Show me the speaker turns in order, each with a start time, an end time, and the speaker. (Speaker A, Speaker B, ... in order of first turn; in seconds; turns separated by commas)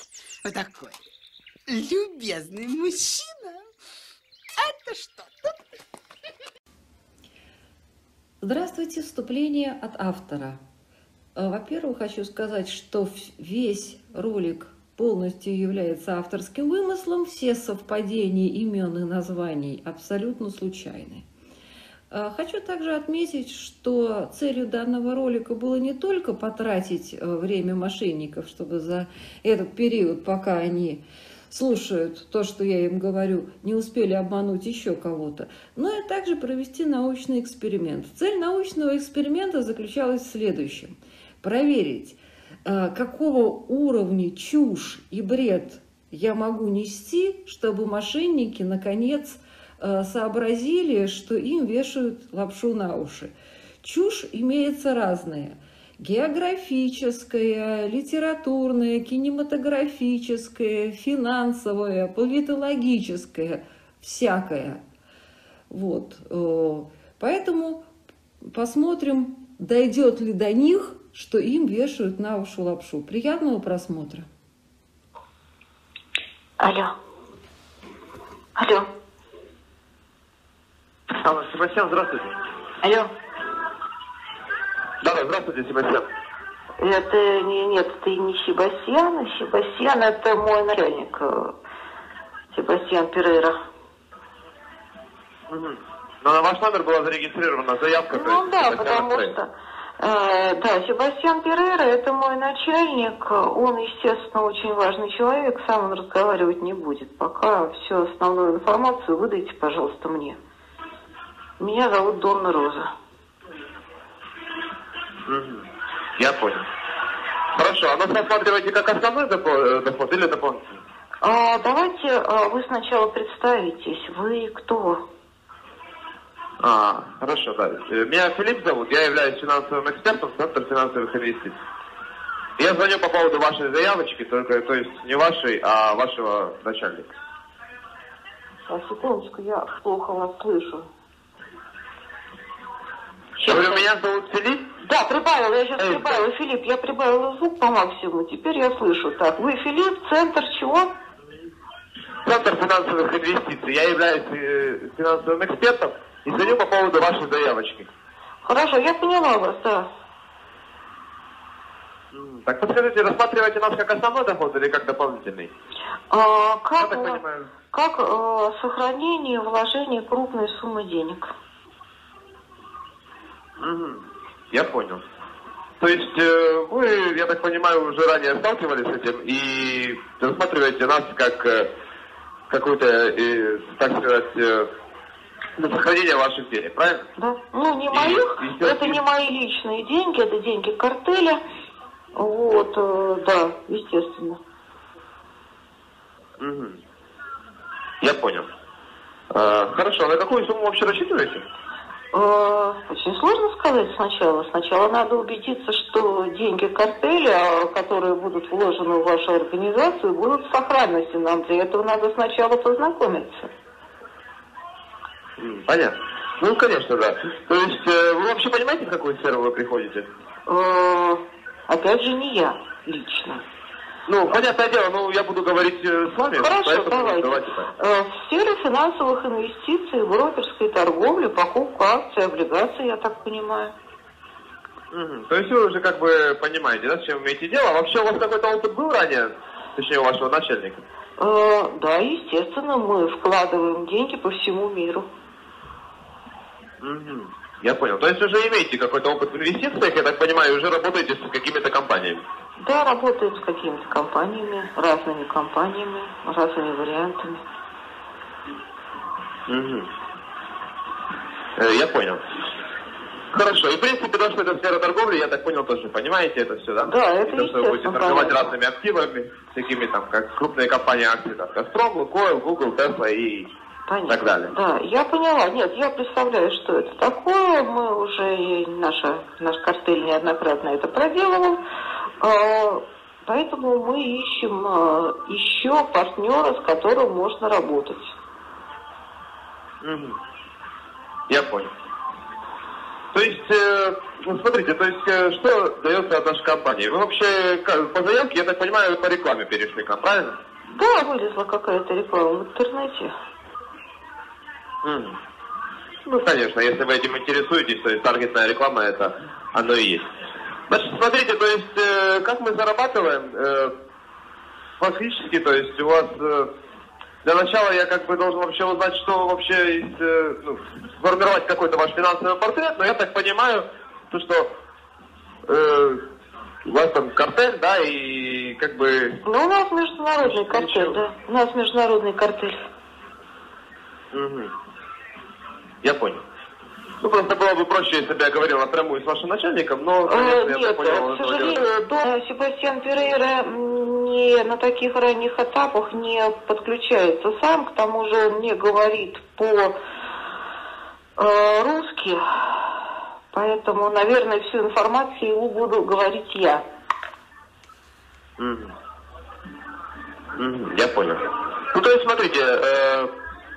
Speaker A: 0.5-1.0, Speaker A: 1.7-3.6, Speaker A: 4.6-5.6, Speaker B: 8.4-10.6, Speaker B: 11.4-21.3, Speaker B: 22.1-64.8, Speaker B: 65.7-67.9, Speaker B: 68.5-74.3, Speaker C: 76.6-77.0, Speaker C: 78.6-78.9, Speaker D: 81.2-82.3, Speaker C: 82.8-83.1, Speaker D: 85.0-86.1, Speaker C: 86.8-91.5, Speaker C: 92.5-93.6, Speaker D: 95.5-99.3, Speaker C: 98.1-110.4, Speaker C: 111.6-112.9, Speaker D: 115.3-116.6, Speaker D: 117.5-120.8, Speaker C: 121.2-125.0, Speaker D: 126.6-131.6, Speaker D: 132.6-137.1, Speaker C: 138.7-140.9, Speaker C: 143.4-143.9, Speaker D: 143.4-144.7, Speaker C: 144.8-150.9, Speaker D: 145.8-146.2, Speaker D: 152.3-157.9, Speaker C: 158.5-159.9, Speaker D: 162.1-165.5, Speaker C: 166.1-167.2, Speaker D: 166.8-167.5, Speaker C: 167.7-171.3, Speaker D: 173.6-175.0, Speaker D: 175.8-181.7, Speaker D: 182.5-184.7, Speaker D: 185.6-187.1, Speaker C: 187.2-191.4, Speaker D: 187.9-189.0, Speaker C: 192.2-194.4, Speaker D: 196.4-196.8, Speaker D: 198.0-198.5, Speaker D: 199.3-201.4, Speaker C: 202.1-213.5, Speaker D: 215.4-220.1, Speaker C: 220.5-223.4, Speaker D: 224.1-227.7, Speaker C: 226.4-233.7, Speaker D: 234.9-240.8, Speaker C: 241.2-245.1, Speaker D: 246.8-252.2, Speaker C: 252.6-257.4, Speaker D: 259.5-259.9, Speaker D: 261.6-262.2, Speaker D: 263.3-273.5, Speaker C: 266.9-268.5, Speaker C: 273.9-281.6, Speaker D: 274.1-274.5, Speaker C: 282.2-288.1, Speaker D: 289.8-290.2, Speaker D: 291.3-291.7, Speaker D: 293.1-300.4, Speaker C: 300.7-303.1, Speaker D: 304.8-305.2, Speaker D: 306.1-310.1, Speaker D: 310.7-313.7, Speaker D: 314.8-316.5, Speaker D: 317.2-324.5, Speaker D: 325.5-326.0, Speaker D: 326.6-329.2, Speaker C: 329.2-332.6, Speaker D: 330.4-331.0, Speaker D: 334.1-334.5, Speaker D: 335.8-336.2, Speaker D: 337.0-341.6, Speaker C: 340.1-349.8, Speaker C: 351.2-352.6, Speaker C: 353.3-356.6, Speaker D: 358.4-358.7, Speaker D: 360.4-363.1